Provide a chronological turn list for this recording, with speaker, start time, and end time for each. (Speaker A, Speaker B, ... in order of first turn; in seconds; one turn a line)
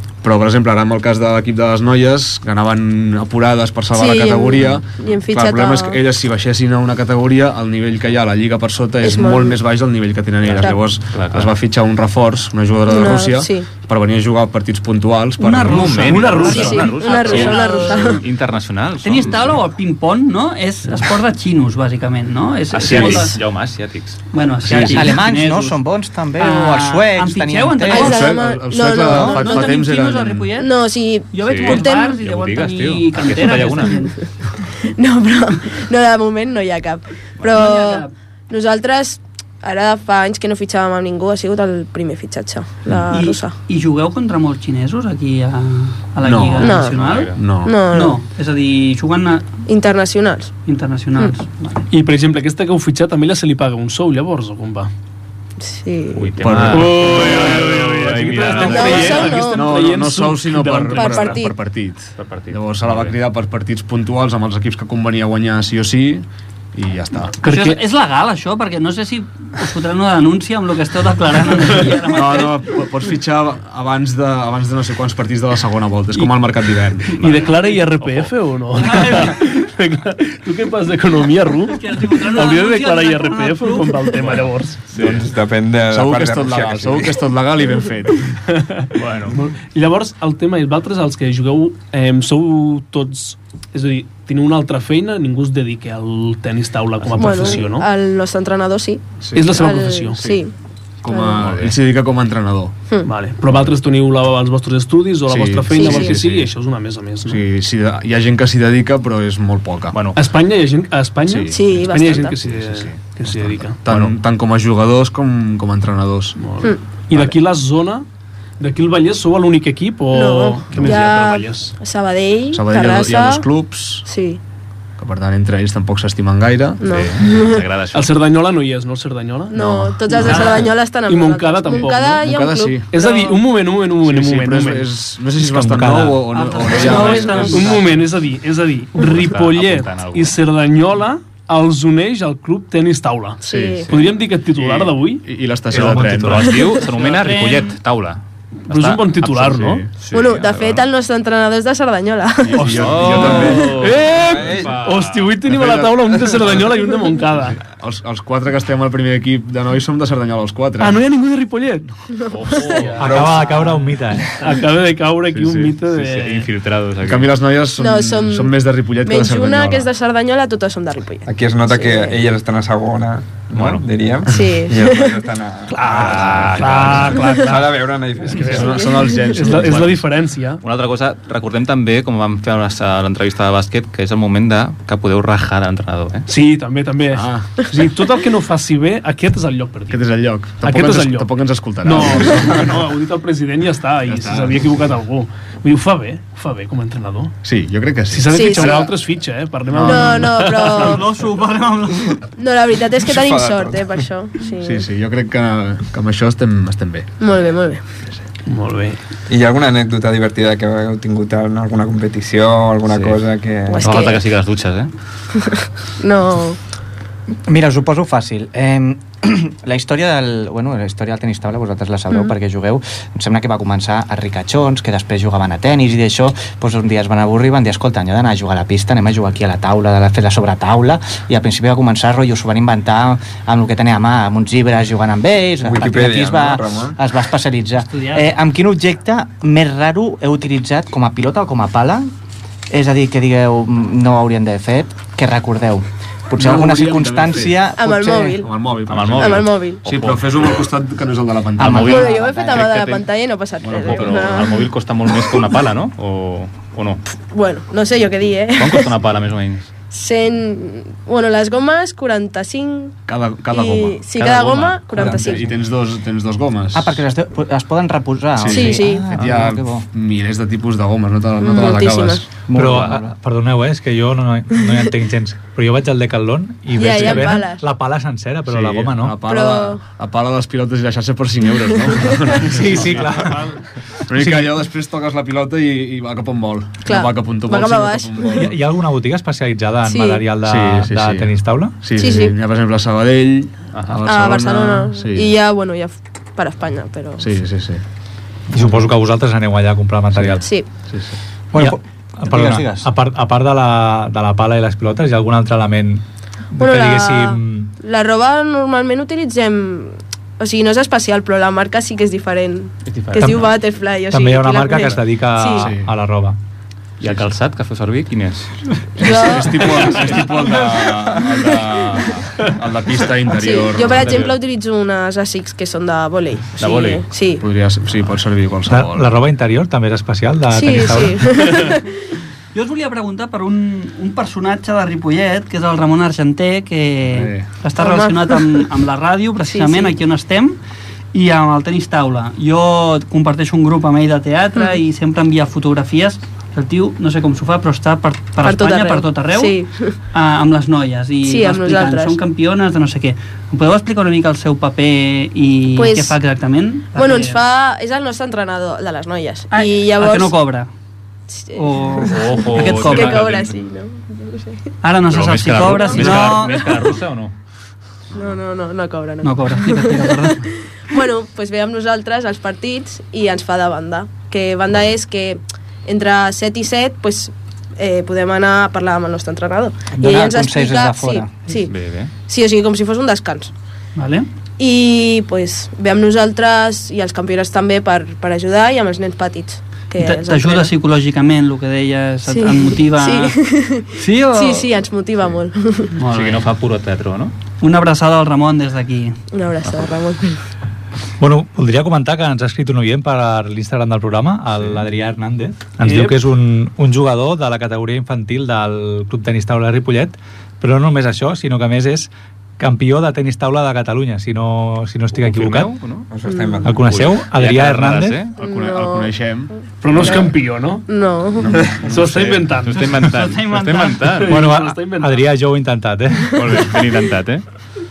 Speaker A: 0.2-16.1
Speaker B: 3.9-6.0
Speaker B: 9.0-9.6
Speaker C: 10.4-11.5
Speaker B: 12.8-13.7
Speaker D: 15.4-18.2
Speaker C: 15.6-19.6
Speaker E: 16.0-16.9
Speaker B: 16.5-18.2
Speaker D: 19.0-23.4
Speaker C: 22.7-24.2
Speaker A: 22.9-23.2
Speaker D: 24.3-25.8
Speaker A: 24.6-25.1
Speaker F: 24.7-28.1
Speaker D: 26.3-28.3
Speaker B: 27.9-29.8
Speaker A: 28.0-30.5
Speaker D: 29.0-30.7
Speaker B: 30.6-32.2
Speaker D: 31.3-34.2
Speaker C: 31.4-34.1
Speaker B: 34.9-43.5
Speaker D: 37.5-38.1
Speaker D: 43.1-47.3
Speaker A: 46.2-46.7
Speaker B: 46.6-46.9
Speaker C: 46.8-47.4
Speaker A: 47.3-47.8
Speaker B: 47.6-48.2
Speaker D: 47.8-49.5
Speaker B: 49.7-50.5
Speaker D: 50.6-51.9
Speaker E: 51.9-54.9
Speaker B: 55.6-56.5
Speaker C: 56.1-59.4
Speaker A: 56.4-67.4
Speaker E: 56.7-61.4
Speaker B: 58.5-59.6
Speaker B: 60.9-61.5
Speaker C: 62.2-63.1
Speaker E: 67.4-67.8
Speaker D: 67.4-72.7
Speaker A: 72.1-77.2
Speaker E: 76.1-84.8
Speaker C: 77.1-78.3
Speaker D: 78.8-79.4
Speaker D: 81.7-84.1
Speaker C: 84.9-85.3
Speaker G: 84.9-87.1
Speaker A: 85.9-88.3
Speaker E: 88.5-97.9
Speaker C: 88.9-89.4
Speaker B: 97.2-100.5
Speaker A: 99.2-99.7
Speaker E: 99.3-100.3
Speaker A: 101.0-102.7
Speaker B: 101.1-101.5
Speaker C: 101.4-101.7
Speaker E: 103.0-107.4
Speaker A: 105.3-106.5
Speaker B: 105.7-106.2
Speaker A: 107.2-110.0
Speaker C: 109.9-110.2
Speaker E: 110.1-114.1
Speaker A: 111.2-116.4
Speaker B: 111.5-112.4
Speaker E: 116.3-118.0
Speaker E: 118.6-121.7
Speaker B: 120.1-123.5
Speaker A: 120.7-121.0
Speaker A: 122.5-124.1
Speaker B: 124.0-124.4
Speaker A: 125.0-126.8
Speaker B: 126.8-127.7
Speaker C: 126.8-128.1
Speaker E: 127.9-129.6
Speaker B: 129.5-133.4
Speaker A: 129.5-130.4
Speaker D: 130.1-130.7
Speaker E: 130.2-132.2
Speaker A: 132.2-132.9
Speaker E: 132.9-134.9
Speaker A: 134.0-137.8
Speaker H: 135.4-136.2
Speaker D: 136.2-138.1
Speaker E: 136.9-145.3
Speaker C: 139.0-140.4
Speaker B: 143.4-143.9
Speaker A: 143.4-143.8
Speaker A: 144.5-146.6
Speaker H: 145.7-146.5
Speaker C: 145.7-150.9
Speaker B: 146.4-146.8
Speaker D: 146.8-147.8
Speaker E: 148.7-149.9
Speaker A: 149.6-149.9
Speaker B: 150.1-153.1
Speaker A: 152.4-153.8
Speaker E: 152.6-157.6
Speaker C: 152.6-155.3
Speaker G: 154.2-154.8
Speaker A: 155.5-156.7
Speaker A: 157.3-161.0
Speaker E: 160.8-161.9
Speaker C: 162.3-163.6
Speaker B: 162.3-162.9
Speaker E: 162.8-163.2
Speaker H: 163.0-164.3
Speaker E: 164.4-166.5
Speaker A: 165.3-165.7
Speaker C: 165.9-167.3
Speaker A: 167.0-169.9
Speaker B: 167.8-172.2
Speaker G: 171.2-178.8
Speaker C: 173.5-173.8
Speaker B: 174.3-175.2
Speaker E: 175.7-180.6
Speaker C: 175.8-177.4
Speaker A: 176.1-177.2
Speaker A: 178.4-180.0
Speaker B: 178.7-179.1
Speaker C: 179.4-180.0
Speaker C: 180.6-186.2
Speaker E: 186.3-190.0
Speaker A: 187.1-187.6
Speaker A: 189.9-192.9
Speaker E: 190.6-197.3
Speaker A: 194.1-194.9
Speaker A: 197.4-198.9
Speaker E: 198.1-201.1
Speaker B: 198.3-198.9
Speaker A: 199.7-200.3
Speaker B: 199.8-201.1
Speaker D: 200.7-202.2
Speaker B: 202.3-204.9
Speaker G: 203.0-203.9
Speaker A: 204.6-207.1
Speaker B: 207.2-207.8
Speaker E: 208.5-209.0
Speaker G: 209.3-214.1
Speaker C: 212.9-213.2
Speaker B: 213.7-214.2
Speaker C: 213.8-214.9
Speaker B: 215.4-216.6
Speaker F: 217.5-242.1
Speaker G: 235.6-236.9
Speaker D: 237.9-238.3
Speaker F: 242.7-248.4
Speaker A: 246.3-247.7
Speaker B: 247.8-248.5
Speaker A: 248.4-252.1
Speaker C: 248.9-250.6
Speaker B: 249.2-249.8
Speaker C: 251.6-253.1
Speaker F: 251.6-252.7
Speaker B: 251.8-255.4
Speaker A: 253.6-254.3
Speaker C: 253.6-257.0
Speaker B: 257.3-258.9
Speaker C: 258.6-259.7
Speaker B: 259.9-263.0
Speaker A: 263.1-267.0
Speaker B: 263.5-265.6
Speaker F: 266.7-269.9
Speaker A: 268.4-272.3
Speaker B: 268.5-269.2
Speaker B: 271.4-272.2
Speaker F: 272.5-273.1
Speaker H: 272.5-279.2
Speaker C: 272.6-273.0
Speaker B: 276.7-277.6
Speaker A: 278.5-283.1
Speaker B: 279.2-279.8
Speaker B: 281.7-282.5
Speaker H: 282.4-283.5
Speaker A: 284.1-288.5
Speaker H: 284.1-284.5
Speaker B: 286.8-288.5
Speaker H: 288.3-291.8
Speaker B: 289.9-290.3
Speaker A: 290.4-291.3
Speaker A: 291.8-295.3
Speaker B: 291.9-292.4
Speaker C: 293.7-294.0
Speaker B: 294.0-297.4
Speaker A: 297.2-297.8
Speaker H: 298.5-300.4
Speaker A: 298.5-298.9
Speaker B: 300.4-300.7
Speaker A: 300.9-301.1
Speaker F: 301.5-302.9
Speaker H: 301.6-307.7
Speaker B: 306.6-315.7
Speaker C: 312.9-313.4
Speaker H: 313.2-313.5
Speaker H: 314.1-316.4
Speaker A: 315.5-315.9
Speaker C: 317.0-318.5
Speaker A: 317.0-317.3
Speaker A: 319.0-324.3
Speaker B: 319.0-319.9
Speaker C: 320.0-322.5
Speaker B: 323.3-327.4
Speaker C: 323.8-324.3
Speaker C: 326.6-327.0
Speaker A: 327.4-329.1
Speaker H: 328.7-331.5
Speaker B: 330.5-331.9
Speaker D: 332.5-340.6
Speaker A: 337.0-337.5
Speaker B: 337.8-338.7
Speaker B: 339.5-339.9
Speaker D: 341.1-349.6
Speaker B: 348.4-349.9
Speaker D: 350.1-357.4
Speaker B: 351.2-352.2
Speaker B: 355.7-356.2
Speaker B: 356.9-360.4
Speaker D: 359.5-360.7
Speaker B: 361.3-364.7
Speaker D: 361.5-363.3
Speaker C: 362.0-363.5
Speaker D: 364.8-366.9
Speaker C: 365.1-367.3
Speaker B: 365.6-366.7
Speaker B: 368.1-381.7
Speaker D: 369.2-370.4
Speaker F: 379.9-381.4
Speaker C: 381.7-382.1
Speaker B: 382.3-383.5
Speaker D: 383.9-384.3
Speaker B: 384.6-390.7
Speaker D: 390.0-393.4
Speaker B: 392.3-395.9
Speaker D: 394.0-394.7
Speaker D: 396.0-396.5
Speaker C: 396.1-397.3
Speaker D: 397.6-399.1
Speaker B: 399.3-400.4
Speaker C: 399.6-399.9
Speaker H: 401.2-415.7
Speaker E: 405.8-406.2
Speaker C: 415.2-416.1
Speaker G: 416.1-416.9
Speaker B: 416.3-416.6
Speaker H: 416.6-418.2
Speaker C: 416.7-418.3
Speaker A: 418.4-420.3
Speaker B: 418.4-419.1
Speaker E: 419.8-420.9
Speaker B: 419.9-420.3
Speaker B: 420.9-421.7
Speaker A: 421.4-422.0
Speaker E: 421.8-422.9
Speaker C: 421.8-424.4
Speaker D: 422.7-424.1
Speaker E: 424.2-425.3
Speaker H: 424.3-426.6
Speaker C: 426.3-427.4